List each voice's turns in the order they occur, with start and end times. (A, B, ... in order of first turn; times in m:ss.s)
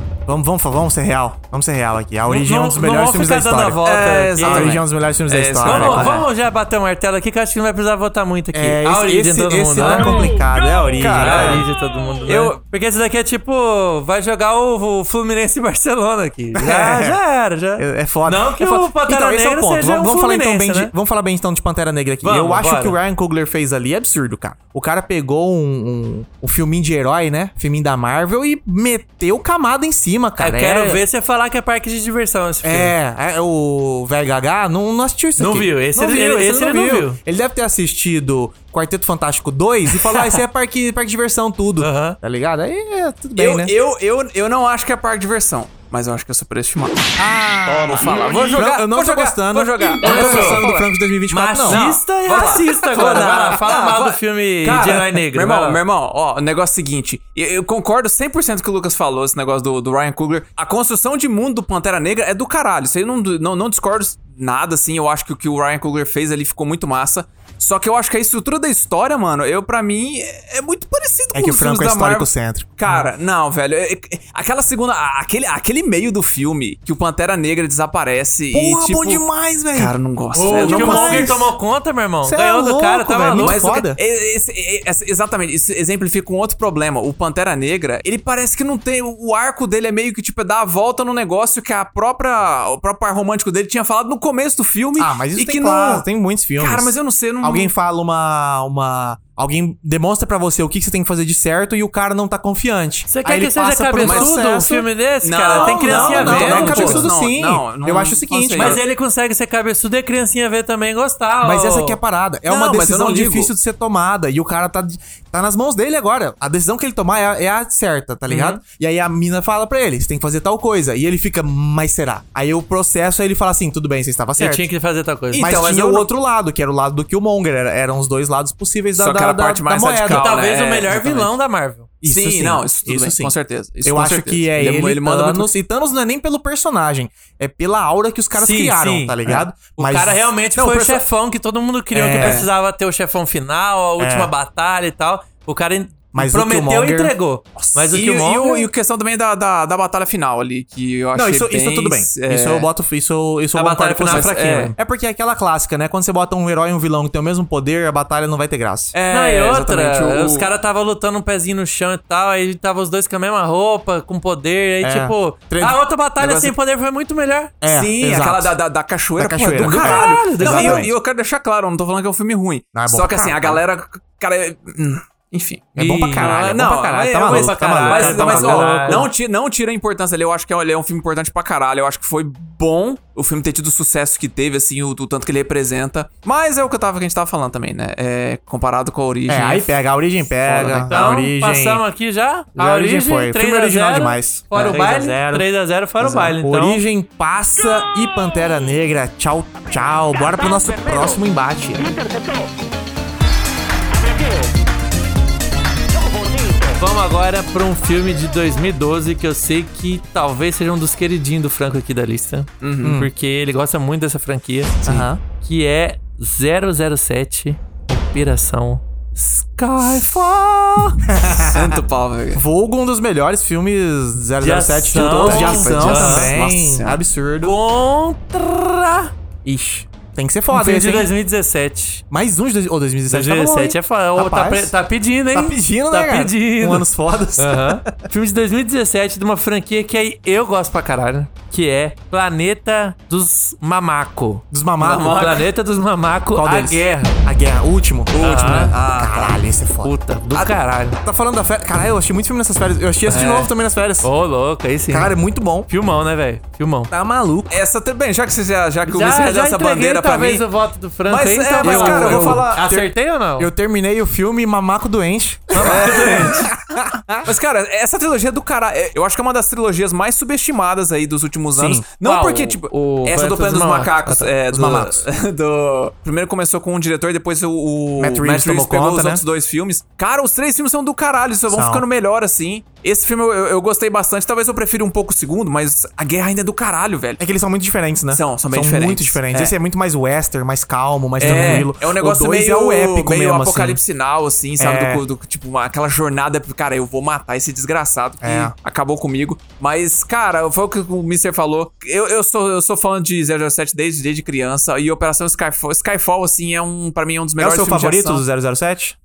0:00.3-0:03.8 A
0:02.3-0:04.8 B
0:03.8-0:06.3 C
0:04.4-0:06.2 A
0:05.6-0:10.3 B
0:08.5-0:11.7 A
0:11.0-0:11.7 C
0:11.0-0:20.9 B
0:12.3-0:12.6 C
0:16.6-0:17.2 A
0:17.8-0:31.0 A
0:22.2-0:23.0 B
0:30.4-0:33.0 B
0:32.6-0:43.7 A
0:35.4-0:37.2 B
0:40.0-0:40.4 B
0:41.8-0:42.2 B
0:43.4-0:47.2 C
0:47.2-0:51.9 A
0:47.7-0:48.4 D
0:47.8-0:50.9 C
0:50.0-0:50.7 B
0:51.3-0:55.8 B
0:51.7-1:21.4 C
0:52.9-0:53.6 A
1:11.3-1:12.8 A
1:18.5-1:19.9 A
1:20.4-1:23.6 B
1:20.6-1:21.5 A
1:22.2-1:24.0 A
1:23.4-1:36.1 C
1:35.0-1:44.9 A
1:36.6-1:37.7 C
1:43.1-1:47.1 B
1:44.0-1:44.3 C
1:45.2-1:48.8 C
1:45.5-1:48.8 A
1:48.6-1:52.0 B
1:51.4-2:04.7 A
1:52.5-1:53.5 C
1:58.3-1:58.6 C
2:04.4-2:05.5 B
2:05.3-2:06.1 C
2:05.4-2:10.3 A
2:09.0-2:11.4 C
2:10.1-2:11.9 B
2:12.0-2:20.7 A
2:12.0-2:15.5 C
2:18.4-2:28.7 B
2:20.6-2:21.0 C
2:21.9-2:22.4 A
2:22.2-2:22.5 C
2:24.0-2:24.3 A
2:26.1-2:27.2 A
2:27.6-2:32.7 C
2:31.2-2:39.0 A
2:33.6-2:34.7 C
2:33.6-2:34.7 B
2:38.9-2:40.5 C
2:39.1-2:47.5 B
2:44.8-2:45.8 A
2:46.2-2:46.5 C
2:47.6-2:48.6 A
2:47.7-3:09.7 C
2:49.2-2:50.9 A
2:49.6-2:50.9 B
2:52.7-2:53.6 A
2:55.8-2:59.1 A
2:55.8-2:56.4 B
2:57.2-2:59.1 B
3:09.3-3:11.8 A
3:10.4-3:11.2 C
3:10.8-3:16.8 B
3:12.6-3:15.5 A
3:16.0-3:21.9 A
3:20.2-3:21.2 D
3:21.8-3:22.5 D
3:23.9-3:24.6 D
3:25.9-3:26.8 D
3:26.8-3:41.0 B
3:32.6-3:33.0 C
3:32.8-3:33.1 A
3:34.8-3:35.2 A
3:41.0-3:41.8 A
3:41.5-3:42.4 C
3:42.3-3:47.6 A
3:44.4-3:46.3 B
3:44.9-3:47.0 C
3:47.4-3:49.1 B
3:49.4-3:51.1 A
3:50.5-3:52.0 B
3:52.1-3:54.7 A
3:53.1-4:04.4 B
3:55.3-3:58.1 A
4:04.5-4:05.2 A
4:04.8-4:05.4 C
4:05.0-4:07.2 B
4:06.4-4:09.9 A
4:08.1-4:09.4 C
4:08.2-4:08.8 B
4:09.8-4:11.0 B
4:11.0-4:14.1 A
4:13.1-4:13.5 C
4:14.0-4:15.1 B
4:14.9-4:15.7 A
4:15.7-4:16.9 B
4:16.9-4:17.6 A
4:17.5-4:20.5 C
4:18.9-4:23.5 B
4:21.1-4:22.7 C
4:21.6-4:27.3 A
4:25.5-4:26.5 B
4:25.6-4:26.6 C
4:27.2-4:47.2 C
4:31.6-4:31.8 A
4:32.0-4:34.3 B
4:34.5-4:35.0 A
4:38.0-4:39.2 A
4:41.5-4:41.8 A
4:47.2-4:53.8 A
4:48.1-4:49.6 C
4:51.2-5:08.2 C
4:51.3-4:51.7 B
4:54.6-4:55.0 A
4:58.2-4:58.5 A
5:07.4-5:09.0 A